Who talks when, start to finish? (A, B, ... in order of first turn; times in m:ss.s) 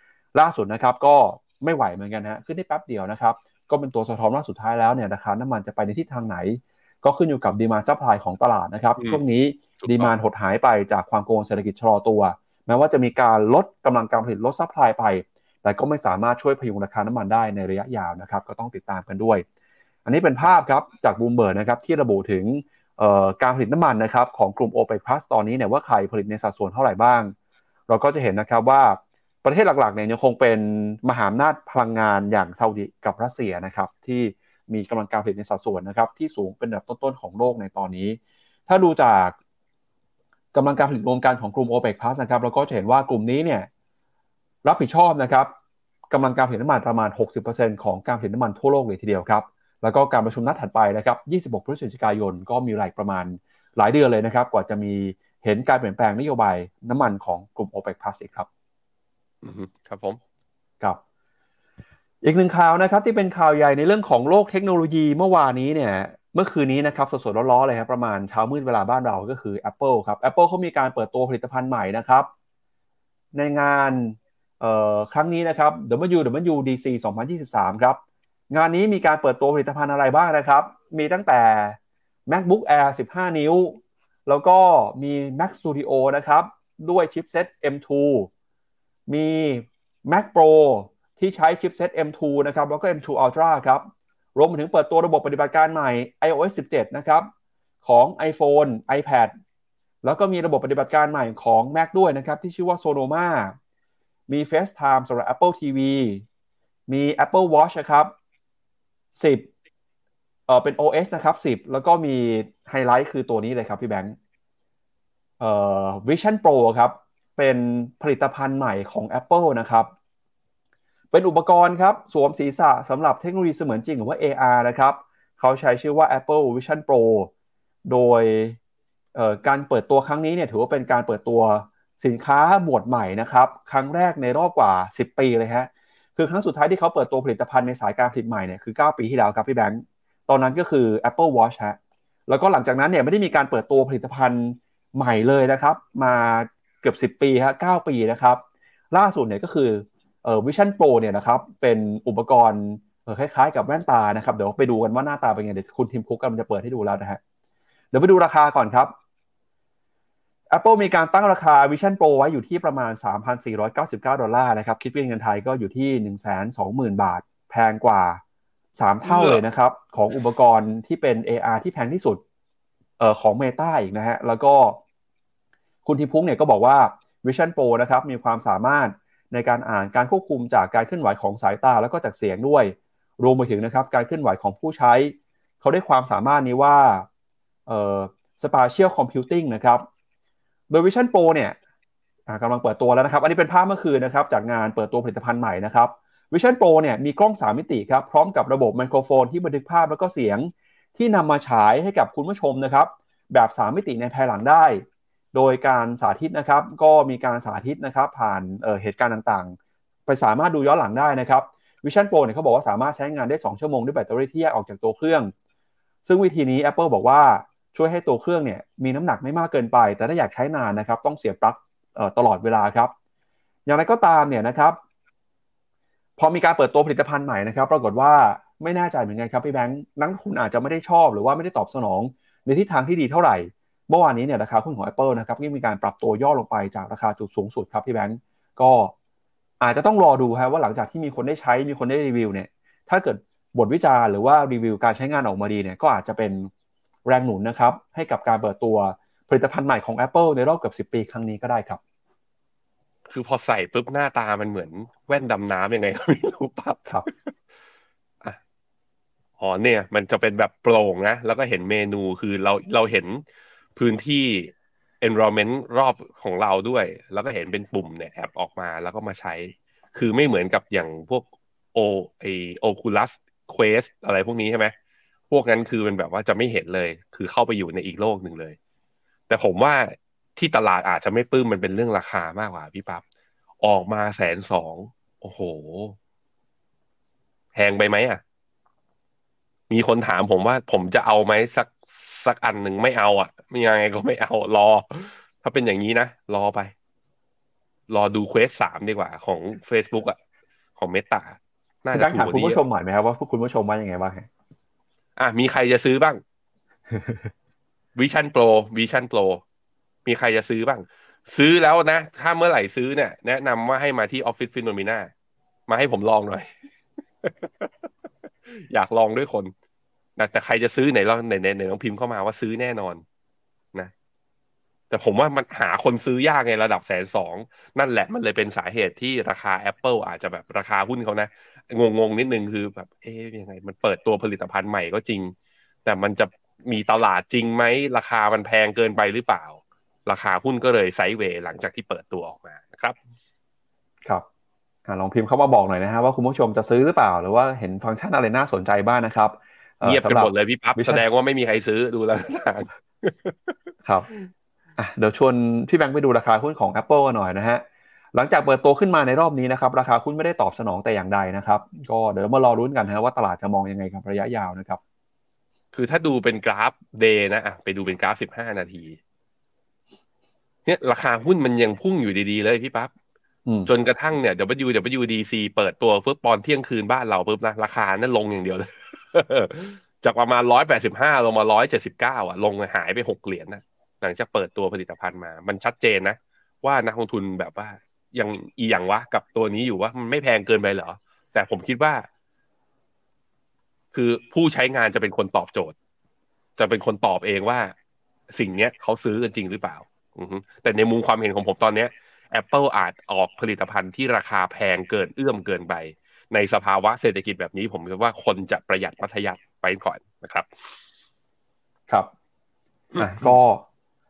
0:00.3-0:19.4 A
0:09.8-0:10.1 B
0:20.0-0:27.3 A
0:27.9-0:39.4 A
0:40.5-0:43.7 A
0:44.6-0:45.5 A
0:46.1-0:58.5 A
0:59.4-1:00.2 B
1:02.2-1:12.3 A
1:13.3-1:18.0 A
1:18.5-1:28.3 A
1:29.1-1:37.3 A
1:37.8-1:39.3 A
1:40.0-1:43.6 A
1:44.3-1:46.2 A
1:46.9-1:48.1 A
1:49.1-1:49.5 A
1:50.5-1:54.2 A
1:55.4-1:59.9 A
2:01.1-2:07.3 A
2:07.8-2:08.6 A
2:09.1-2:37.2 A
2:37.9-2:38.9 A
2:40.5-2:48.2 A
2:48.8-2:52.2 A
2:49.0-2:49.4 B
2:53.0-2:54.8 A
2:55.8-3:07.0 A
3:07.7-3:09.8 A
3:10.7-3:11.6 A
3:12.3-3:29.6 A
3:30.1-3:35.3 A
3:36.0-3:42.9 A
3:43.7-3:44.8 A
3:46.2-3:58.9 A
3:59.6-4:06.5 A
4:07.0-4:11.8 A
4:13.1-4:17.3 B
4:19.4-4:23.2 B
4:23.8-4:34.7 B
4:35.3-4:38.6 B
4:39.3-4:43.0 B
4:43.6-4:46.0 B
4:47.5-4:48.2 B
4:49.7-4:56.7 B
4:57.9-5:00.2 B
5:00.8-5:02.6 B
5:01.9-5:04.3 A
5:05.2-5:06.2 B
5:06.9-5:07.2 A
5:08.0-5:09.4 B
5:10.0-5:15.1 B
5:15.7-5:16.5 B
5:17.2-5:17.7 B
5:18.5-5:19.5 B
5:20.2-5:23.0 B
5:24.9-5:43.0 B
5:44.8-5:51.0 A
5:49.8-5:53.5 B
5:54.8-6:04.8 A
6:05.7-6:09.0 B
6:10.6-6:12.9 B
6:13.6-6:32.1 B
6:33.9-6:35.7 B
6:36.6-6:37.7 B
6:38.3-6:50.7 B
6:52.9-6:53.4 B
6:53.0-6:53.6 A